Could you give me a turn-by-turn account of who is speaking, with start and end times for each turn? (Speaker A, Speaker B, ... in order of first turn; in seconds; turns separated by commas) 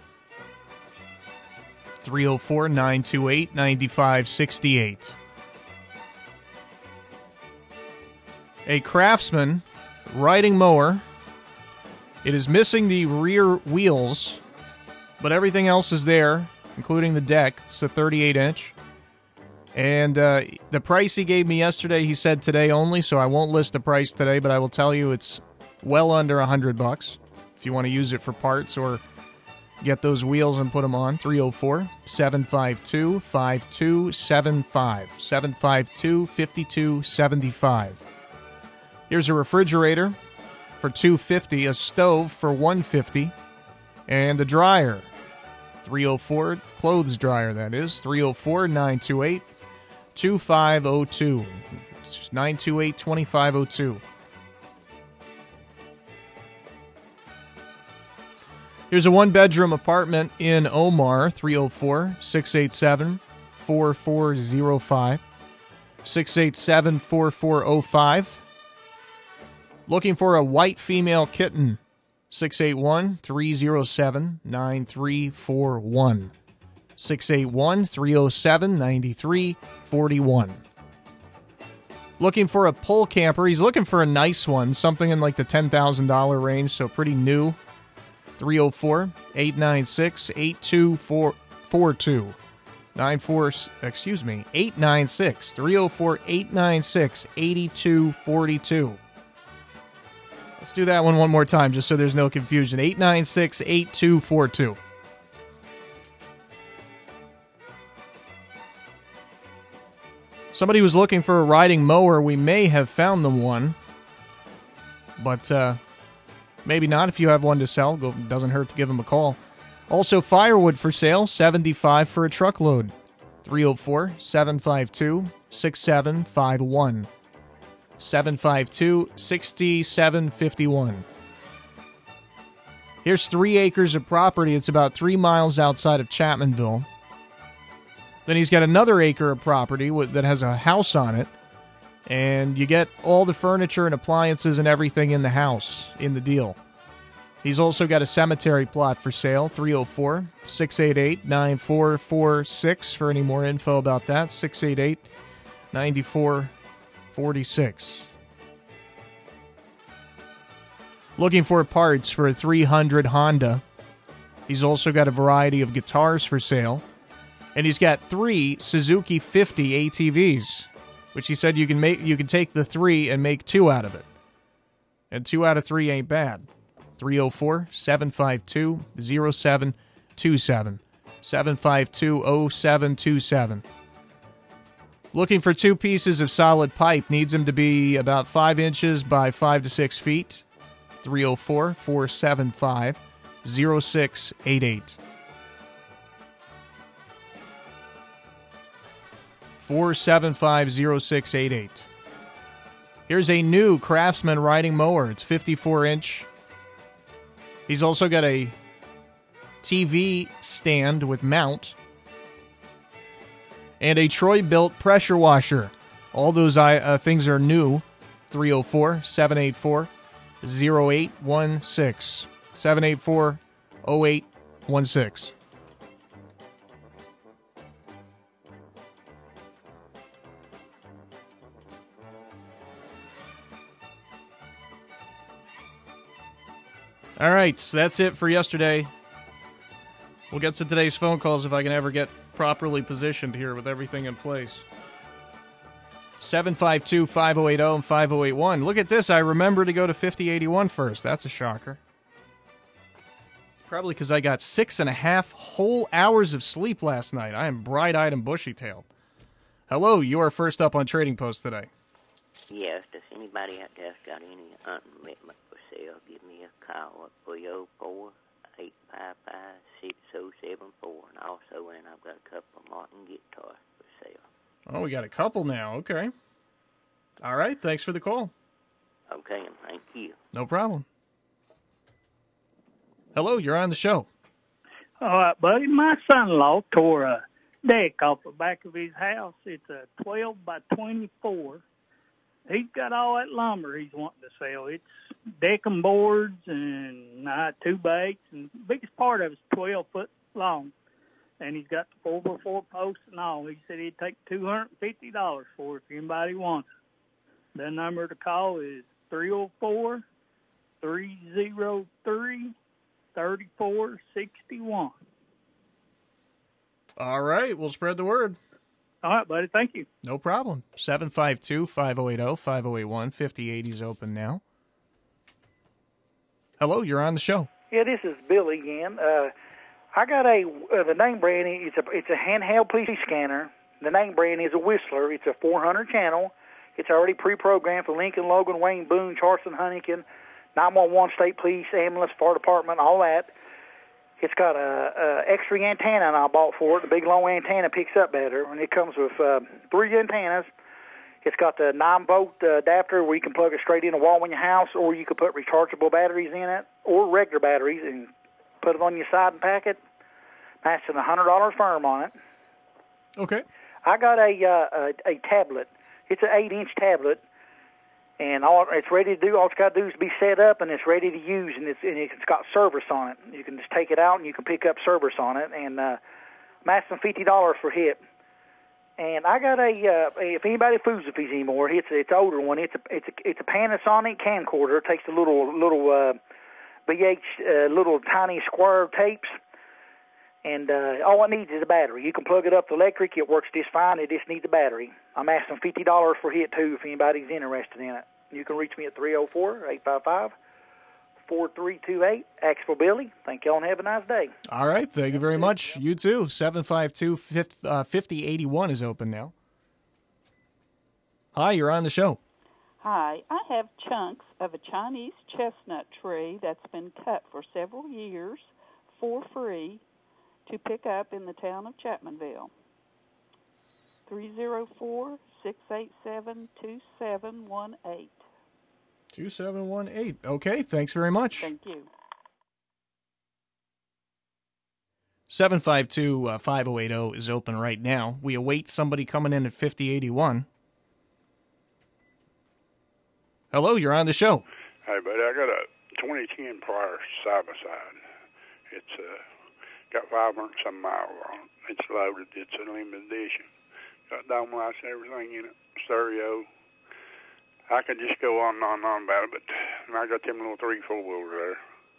Speaker A: 2.0-5.2, Speaker A: 8.7-11.0, Speaker A: 12.2-14.4, Speaker A: 15.2-18.7, Speaker A: 19.7-29.0, Speaker A: 29.8-38.0, Speaker A: 39.1-40.2, Speaker A: 40.8-43.3, Speaker A: 44.1-45.1, Speaker A: 45.8-49.5, Speaker A: 50.1-54.0, Speaker A: 58.9-65.2, Speaker A: 66.0-68.4, Speaker A: 69.9-71.8, Speaker A: 72.3-76.3, Speaker A: 77.0-80.6, Speaker A: 82.2-87.6, Speaker A: 88.4-92.3, Speaker A: 92.9-99.0, Speaker A: 100.6-104.8, Speaker A: 110.5-113.8, Speaker A: 115.2-115.8, Speaker A: 116.6-119.4, Speaker A: 119.9-122.9, Speaker A: 123.4-127.1, Speaker A: 128.0-131.1, Speaker A: 133.0-136.9, Speaker A: 138.2-141.3, Speaker A: 142.1-146.6, Speaker A: 147.4-155.1, Speaker A: 155.7-156.5, Speaker A: 157.1-158.1, Speaker A: 161.2-163.6, Speaker A: 164.5-166.8, Speaker A: 167.5-174.1, Speaker A: 175.1-176.5, Speaker A: 177.0-183.6, Speaker A: 185.1-190.4, Speaker A: 191.0-195.0, Speaker A: 199.6-201.9, Speaker A: 203.1-206.3, Speaker A: 207.7-208.5, Speaker A: 209.6-211.8, Speaker A: 213.8-219.9, Speaker A: 220.4-225.3, Speaker A: 237.2-238.9, Speaker A: 240.3-244.7, Speaker A: 246.2-251.8, Speaker A: 253.6-258.8, Speaker A: 259.7-261.7, Speaker B: 262.5-274.2, Speaker A: 274.7-276.1, Speaker A: 277.2-278.3, Speaker B: 279.1-280.2, Speaker A: 280.3-280.8, Speaker A: 283.1-284.1, Speaker C: 285.0-291.6, Speaker C: 292.5-300.7, Speaker C: 301.4-306.7, Speaker C: 307.6-310.0, Speaker C: 310.8-312.5, Speaker C: 313.1-315.0, Speaker A: 317.0-318.4, Speaker C: 319.0-319.9, Speaker A: 320.0-324.4, Speaker A: 326.6-327.5, Speaker D: 327.7-329.3, Speaker D: 329.9-343.3, Speaker D: 344.2-350.5, Speaker D: 351.2-358.1, Speaker D: 358.6-359.8, Speaker D: 360.6-362.1, Speaker A: 363.2-363.4, Speaker D: 363.8-367.2, Speaker D: 368.2-376.0, Speaker D: 376.6-378.0, Speaker D: 379.0-386.2, Speaker D: 386.9-389.3, Speaker D: 390.4-400.3, Speaker D: 401.3-404.3, Speaker A: 404.5-409.3, Speaker A: 411.3-412.2, Speaker E: 412.8-419.8, Speaker E: 420.4-422.5, Speaker E: 424.1-428.2, Speaker A: 429.1-431.5, Speaker E: 431.4-431.9, Speaker A: 435.3-440.4, Speaker A: 443.5-444.4, Speaker F: 444.8-448.0, Speaker F: 448.7-449.2, Speaker F: 449.9-453.5, Speaker F: 454.1-456.5, Speaker F: 457.7-461.6